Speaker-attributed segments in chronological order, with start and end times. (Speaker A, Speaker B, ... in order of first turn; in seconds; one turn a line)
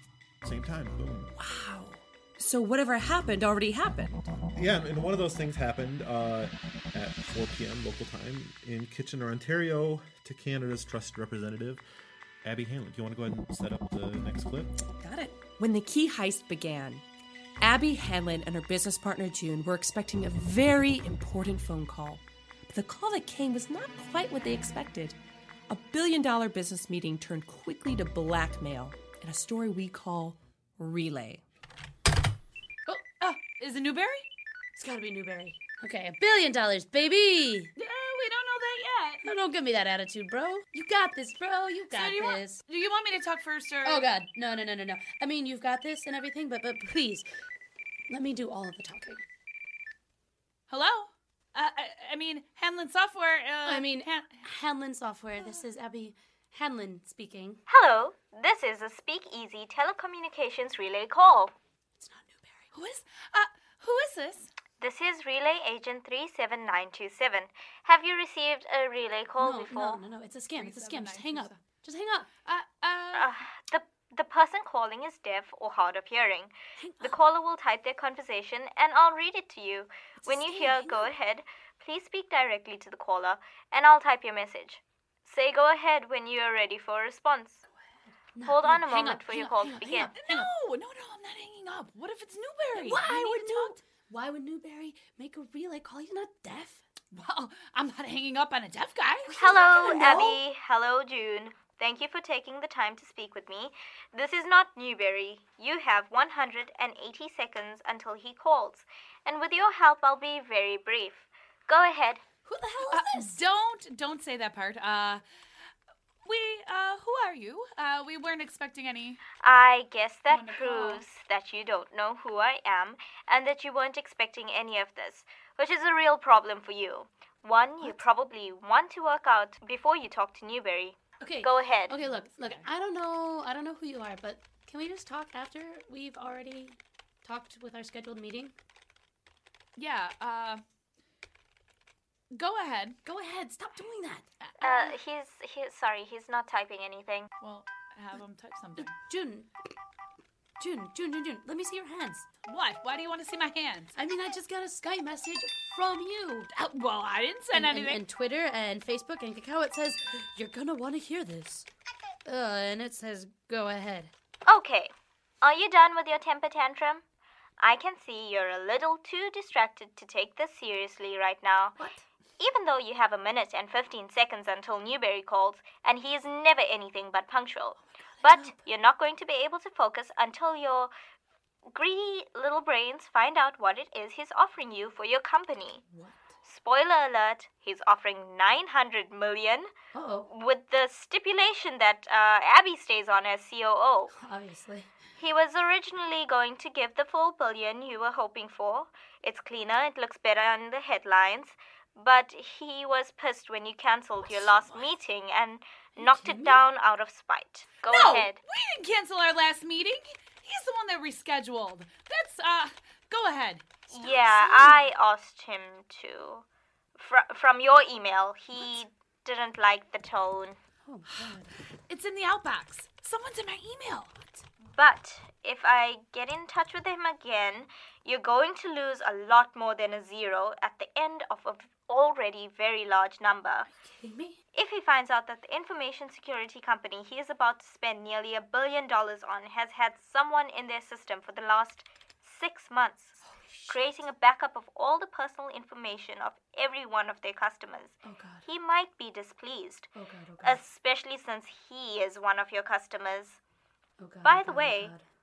Speaker A: 0.4-1.3
Speaker B: 1.4-4.2
Speaker A: 4.5-11.8
Speaker A: 12.4-14.7
Speaker B: 14.8-17.0
Speaker B: 17.6-25.2
Speaker B: 25.7-31.4
Speaker C: 32.9-34.3
Speaker D: 34.8-37.7
Speaker C: 37.8-39.2
Speaker D: 39.2-42.6
Speaker C: 41.9-44.1
Speaker D: 43.8-47.3
Speaker D: 48.1-49.2
Speaker C: 50.7-54.4
Speaker D: 53.6-57.6
Speaker E: 57.7-61.5
Speaker D: 62.0-62.7
Speaker C: 62.7-64.5
Speaker E: 64.8-70.0
Speaker D: 69.4-72.3
Speaker C: 70.5-71.6
Speaker C: 72.4-73.3
Speaker E: 73.1-87.6
Speaker D: 76.8-77.2
Speaker D: 80.2-81.1
Speaker D: 88.3-90.5
Speaker E: 88.4-90.1
Speaker C: 90.1-93.8
Speaker D: 92.7-96.8
Speaker C: 97.1-100.0
Speaker D: 99.3-100.4
Speaker E: 99.4-112.2
Speaker D: 112.4-113.4
Speaker C: 112.9-115.2
Speaker C: 116.2-119.2
Speaker E: 119.4-132.0
Speaker C: 120.3-121.0
Speaker D: 131.2-138.5
Speaker C: 132.1-132.7
Speaker C: 139.8-140.6
Speaker C: 142.3-143.0
Speaker D: 143.0-144.2
Speaker C: 144.4-144.9
Speaker E: 144.6-147.3
Speaker C: 147.4-148.9
Speaker D: 148.8-149.5
Speaker D: 150.6-152.3
Speaker C: 152.4-153.9
Speaker D: 153.9-156.5
Speaker C: 156.5-158.0
Speaker D: 157.5-161.7
Speaker D: 162.2-164.1
Speaker E: 164.4-167.0
Speaker E: 167.6-171.8
Speaker D: 171.8-172.0
Speaker E: 172.4-180.9
Speaker D: 177.8-178.7
Speaker E: 181.7-185.8
Speaker D: 185.9-186.3
Speaker E: 186.4-189.7
Speaker D: 189.9-190.3
Speaker E: 190.3-194.1
Speaker D: 194.1-194.9
Speaker E: 195.2-208.4
Speaker D: 204.2-204.9
Speaker D: 206.0-206.6
Speaker C: 207.8-213.7
Speaker E: 213.9-216.4
Speaker D: 214.1-214.7
Speaker E: 217.0-220.6
Speaker D: 220.8-221.5
Speaker C: 221.1-224.4
Speaker E: 224.7-233.7
Speaker D: 233.7-234.4
Speaker E: 234.5-243.2
Speaker D: 243.2-243.8
Speaker E: 243.7-249.9
Speaker D: 248.0-248.4
Speaker D: 249.9-250.6
Speaker E: 250.4-253.4
Speaker D: 254.0-255.0
Speaker E: 254.2-254.9